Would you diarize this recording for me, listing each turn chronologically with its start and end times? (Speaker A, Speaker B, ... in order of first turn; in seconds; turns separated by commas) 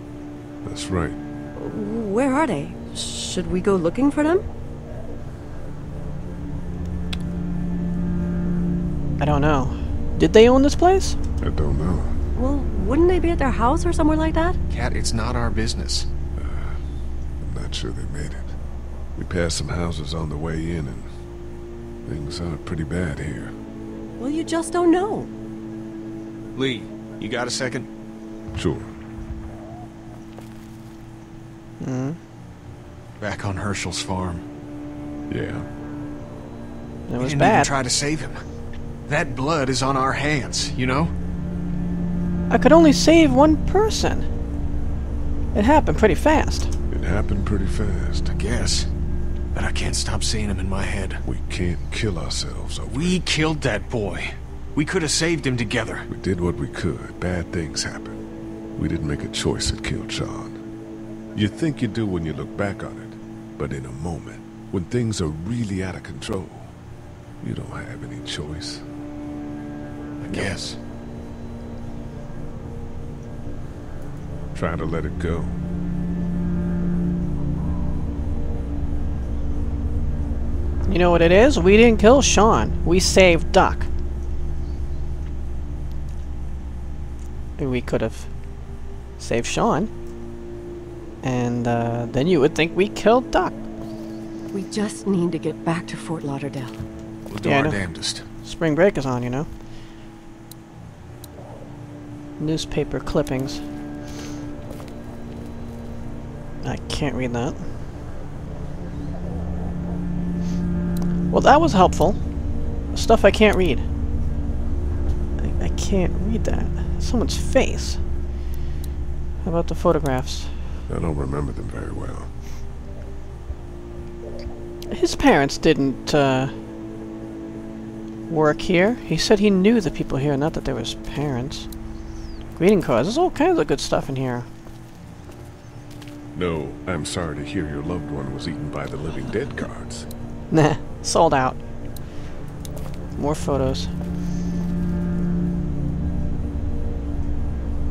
Speaker A: 0.6-1.2, Speaker B: 1.6-4.4, Speaker C: 9.2-11.2, Speaker A: 11.4-12.2, Speaker B: 12.3-14.6, Speaker D: 14.7-16.1, Speaker A: 16.3-16.8, Speaker A: 17.4-18.5, Speaker A: 19.1-21.1, Speaker A: 22.0-23.5, Speaker B: 24.2-25.3, Speaker D: 26.5-27.9, Speaker A: 28.5-28.9, Speaker C: 31.8-32.2, Speaker D: 33.2-34.4, Speaker A: 35.3-35.6, Speaker C: 37.1-37.7, Speaker D: 37.2-38.4, Speaker D: 39.1-41.1, Speaker C: 42.5-44.3, Speaker C: 45.5-46.7, Speaker A: 46.9-48.3, Speaker D: 48.3-48.9, Speaker D: 49.5-51.2, Speaker A: 51.2-53.2, Speaker D: 52.9-56.1, Speaker A: 56.1-58.2, Speaker A: 58.8-60.6, Speaker A: 61.3-66.7, Speaker A: 67.4-68.8, Speaker D: 70.2-70.8, Speaker A: 70.3-70.6, Speaker A: 74.5-75.6, Speaker C: 80.9-83.9, Speaker C: 87.6-88.3, Speaker C: 89.2-89.9, Speaker C: 91.2-93.6, Speaker B: 94.5-96.8, Speaker D: 97.3-98.2, Speaker C: 97.4-97.8, Speaker C: 98.3-99.5, Speaker C: 102.4-103.6, Speaker C: 106.6-107.6, Speaker C: 111.3-112.2, Speaker C: 112.9-113.8, Speaker C: 115.4-118.0, Speaker C: 119.4-120.6, Speaker A: 120.9-122.3, Speaker C: 124.9-126.5, Speaker C: 128.3-131.7, Speaker C: 132.5-134.5, Speaker A: 136.3-140.1, Speaker C: 140.5-141.6, Speaker C: 143.2-143.9